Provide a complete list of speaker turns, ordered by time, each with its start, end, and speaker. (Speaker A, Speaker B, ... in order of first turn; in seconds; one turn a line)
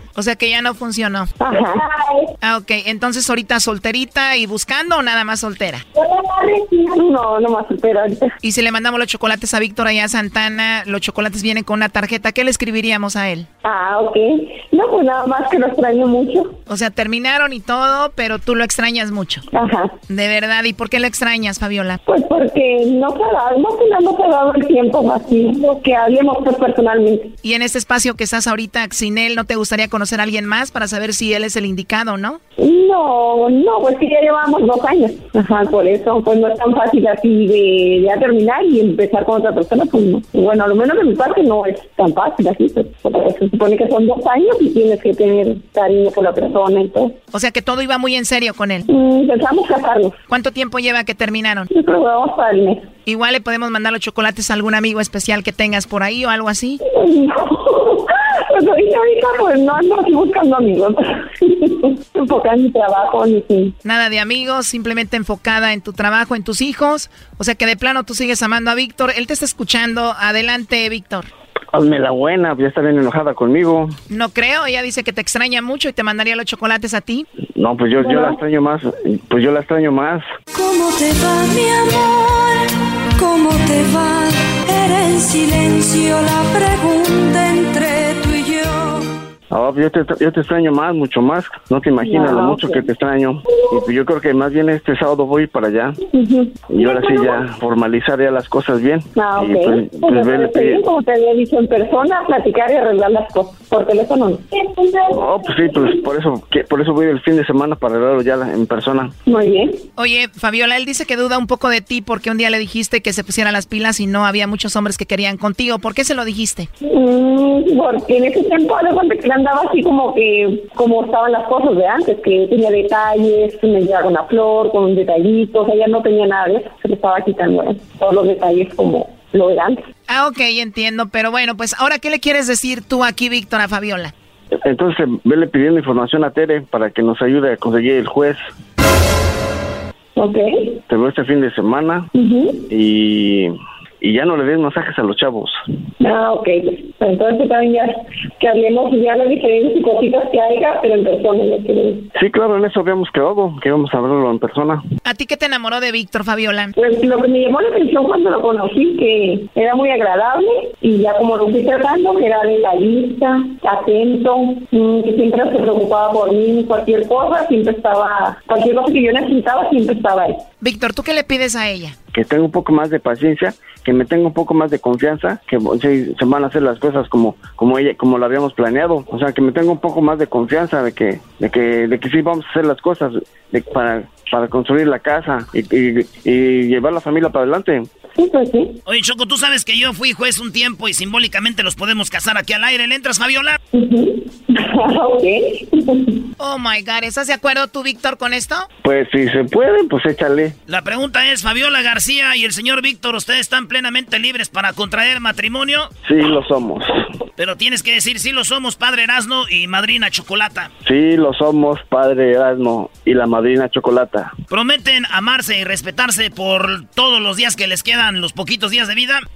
Speaker A: 0.2-1.3
Speaker B: 1.4-2.3
Speaker A: 2.4-5.8
Speaker B: 5.9-8.3
Speaker A: 8.4-13.5
Speaker B: 13.6-16.6
Speaker A: 16.7-19.4
Speaker B: 19.5-19.9
Speaker A: 20.1-22.0
Speaker B: 22.1-27.3
Speaker A: 27.4-32.4
Speaker B: 32.6-47.2
Speaker A: 47.3-48.9
Speaker B: 48.9-50.2
Speaker A: 50.3-51.7
Speaker B: 51.7-52.9
Speaker A: 53.1-56.8
Speaker B: 56.9-63.7
Speaker A: 63.8-71.3
Speaker C: 71.7-74.0
Speaker A: 74.1-77.3
Speaker C: 77.5-80.2
Speaker B: 78.0-78.3
Speaker D: 80.5-89.1
Speaker C: 89.5-96.0
Speaker B: 92.0-92.8
Speaker B: 93.5-93.8
Speaker B: 96.0-97.4
Speaker C: 96.7-100.8
Speaker B: 99.1-106.0
Speaker C: 105.1-109.2
Speaker B: 109.2-109.8
Speaker A: 110.0-116.7
Speaker B: 116.8-129.8
Speaker A: 130.1-134.1
Speaker C: 134.6-138.4
Speaker B: 140.2-140.8
Speaker C: 140.9-142.1
Speaker B: 142.2-142.6
Speaker C: 142.7-145.6
Speaker B: 146.0-152.1
Speaker C: 152.2-154.8
Speaker A: 155.1-156.7
Speaker B: 156.8-170.4
Speaker A: 170.6-172.0
Speaker C: 172.1-188.0
Speaker B: 188.1-188.7
Speaker E: 188.9-193.6
Speaker B: 193.7-196.2
Speaker A: 196.4-198.7
Speaker C: 198.8-200.6
Speaker E: 200.7-205.9
Speaker C: 206.0-206.9
Speaker E: 207.4-210.7
Speaker C: 210.8-214.3
Speaker E: 214.5-219.2